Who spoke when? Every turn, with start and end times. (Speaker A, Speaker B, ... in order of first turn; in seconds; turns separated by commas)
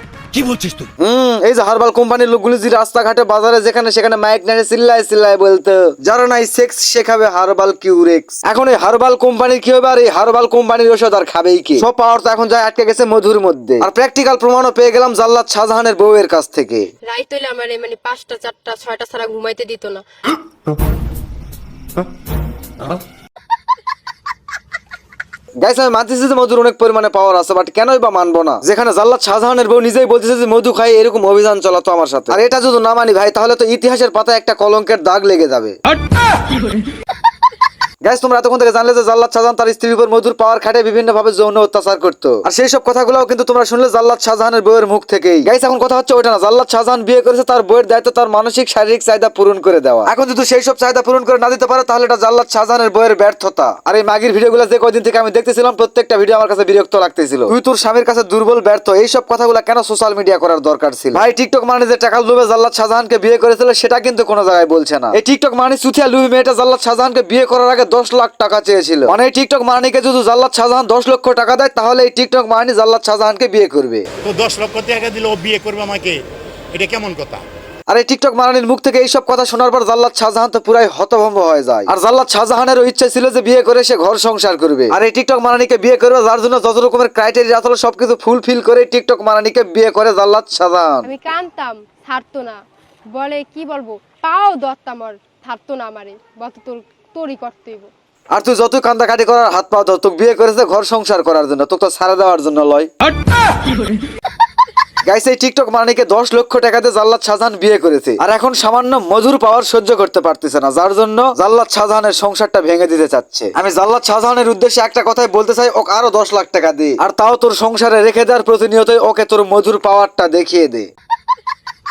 Speaker A: 0.3-0.8, Speaker B: 1.0-16.9, Speaker C: 17.1-20.0, Speaker B: 25.6-35.7, Speaker B: 38.0-74.0, Speaker A: 74.2-76.2, Speaker A: 76.7-77.4, Speaker B: 77.9-91.0, Speaker C: 91.0-97.9, Speaker B: 98.3-102.9, Speaker B: 105.0-120.9